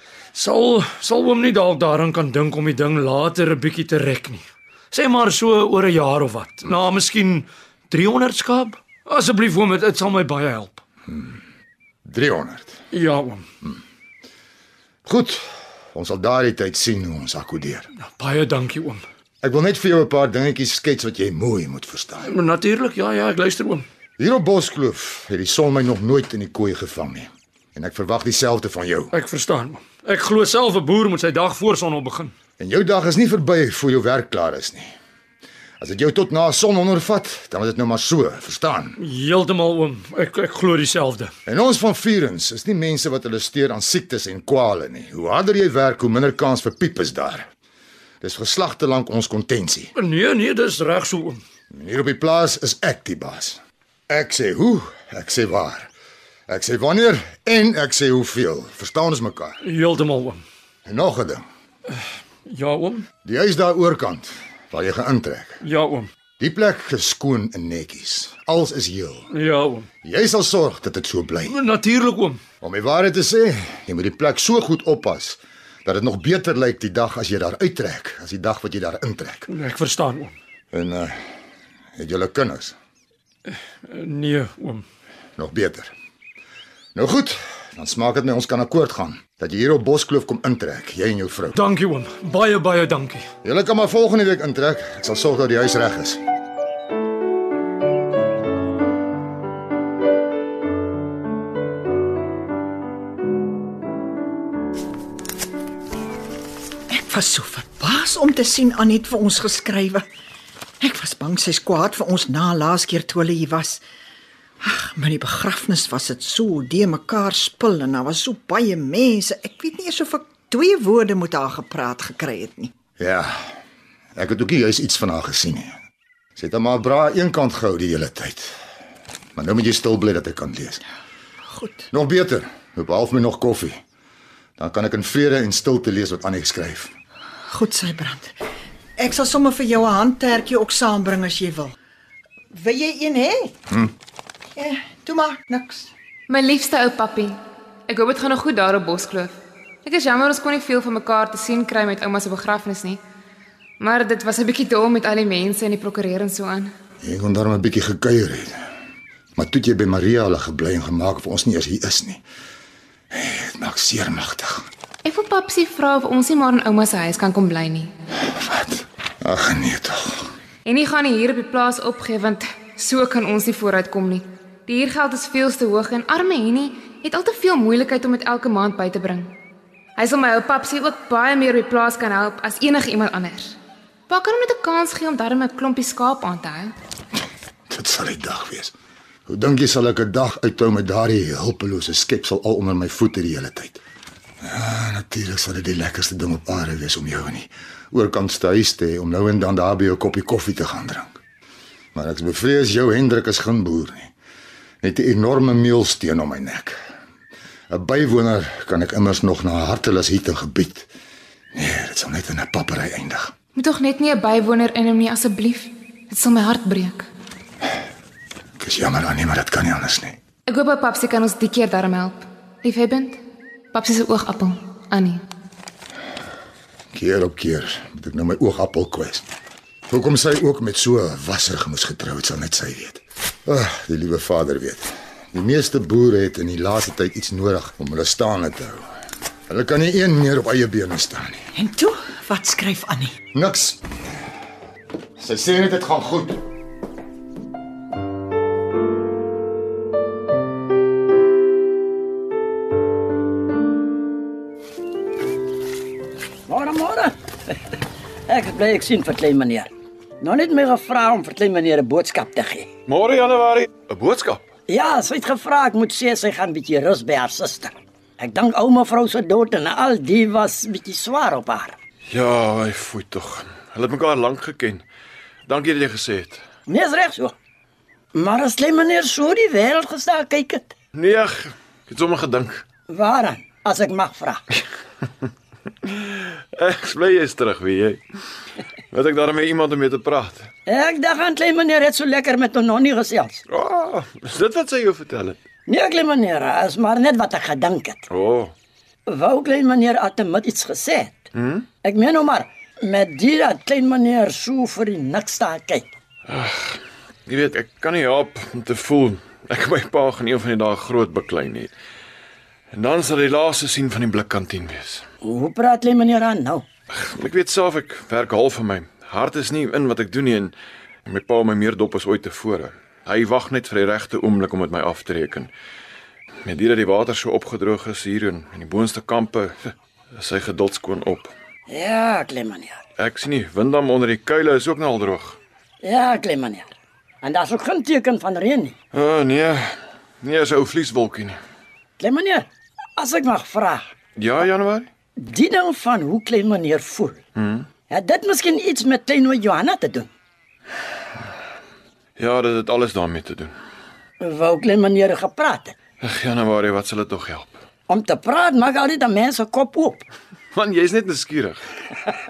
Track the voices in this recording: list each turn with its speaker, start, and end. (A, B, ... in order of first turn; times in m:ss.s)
0:00.3-0:10.8 A
0:11.1-0:11.4 B
0:12.1-0:12.8 B
0:12.9-0:13.5 A
0:15.1-0:15.4 B
0:15.9-0:17.9 B
0:18.1-0:19.0 A
0:19.4-0:22.3 B
0:22.2-0:23.8 A
0:24.2-0:29.1 B
0:29.1-0:32.3 A
0:32.6-0:34.9 B
0:35.8-0:39.0 B
0:39.0-0:41.3 A
0:41.5-0:47.5 B
0:48.2-0:49.9 B
0:50.0-0:51.4 A
0:51.7-0:55.9 B
0:56.5-0:59.6 B
0:59.6-1:00.4 A
1:00.9-1:01.4 B
1:02.5-1:03.1 A
1:03.2-1:05.6 B
1:05.6-1:06.1 A
1:06.4-1:09.3 B
1:09.3-1:09.9 A
1:10.0-1:11.6 B
1:11.5-1:12.4 A
1:12.6-1:19.5 B
1:19.5-1:20.3 A
1:20.7-1:21.2 B
1:22.0-1:22.8 B
1:23.5-1:24.8 A
1:25.4-1:25.9 B
1:26.9-1:31.6 B
1:31.5-1:33.2 A
1:33.4-1:36.2 B
1:46.9-1:50.0 C
1:50.8-1:53.8 C
1:54.6-2:02.7 C
2:03.0-2:03.3 B
2:04.1-2:05.7 B
2:06.4-2:08.5 B
2:09.4-2:10.8 B
2:11.5-2:11.9 C
2:11.9-2:13.8 B
2:14.6-2:16.9 B
2:17.5-2:18.3 C
2:19.0-2:21.7 C
2:22.5-2:23.6 C
2:24.6-2:25.9 C
2:26.3-2:27.4 D
2:27.9-2:33.0 D
2:33.8-2:36.7 D
2:37.0-2:38.6 B
2:39.4-2:42.2 B
2:43.1-2:44.6 B
2:45.0-2:47.9 D
2:48.3-2:50.3 B
2:50.6-2:59.3 D
3:00.0-3:03.5 D
3:04.1-3:06.7 D
3:07.7-3:08.7 B
3:09.3-3:13.8 B
3:14.4-3:21.2 B
3:21.9-3:24.1 B
3:24.8-3:26.8 B
3:27.7-3:30.9 B
3:31.5-3:33.3 B
3:33.6-3:37.0 D
3:38.6-3:40.2 B
3:40.5-3:43.2 D
3:43.7-3:45.2 D
3:46.9-3:49.2 B
3:49.9-3:58.9 B
3:59.5-4:01.4 B
4:01.6-4:03.1 C
4:03.3-4:03.8 B
4:05.2-4:06.4 B
4:16.5-4:17.6 E
4:18.3-4:22.7 E
4:22.9-4:24.4 F
4:24.7-4:31.8 E
4:32.1-4:34.8 F
4:35.5-4:36.4 F
4:36.7-4:37.3 E
4:38.1-4:40.7 E
4:40.9-4:42.6 F
4:42.9-4:44.4 E
4:45.9-4:48.0 F
4:48.9-4:50.5 F
4:50.7-4:53.4 E
4:53.5-4:55.4 F
4:55.7-4:58.1 E
4:58.1-4:58.5 F
4:59.1-5:01.3 E
5:01.3-5:01.7 F
5:01.8-5:05.9 E
5:06.3-5:11.7 F
5:12.7-5:15.0 F
5:15.2-5:16.7 E
5:16.9-5:20.5 F
5:21.1-5:25.5 F
5:26.4-5:29.6 F
5:30.1-5:31.3 F
5:31.7-5:32.8 E
5:33.0-5:35.4 F
5:35.8-5:38.8 E
5:38.9-5:41.4 F
5:42.0-5:43.8 E
5:44.2-5:44.9 F
5:45.2-5:47.2 E
5:47.4-5:47.6 F
5:47.9-5:50.1 E
5:52.2-5:53.5 F
5:54.2-5:55.8 E
5:56.0-5:57.6 F
5:57.9-6:00.0 E
6:00.5-6:01.6 F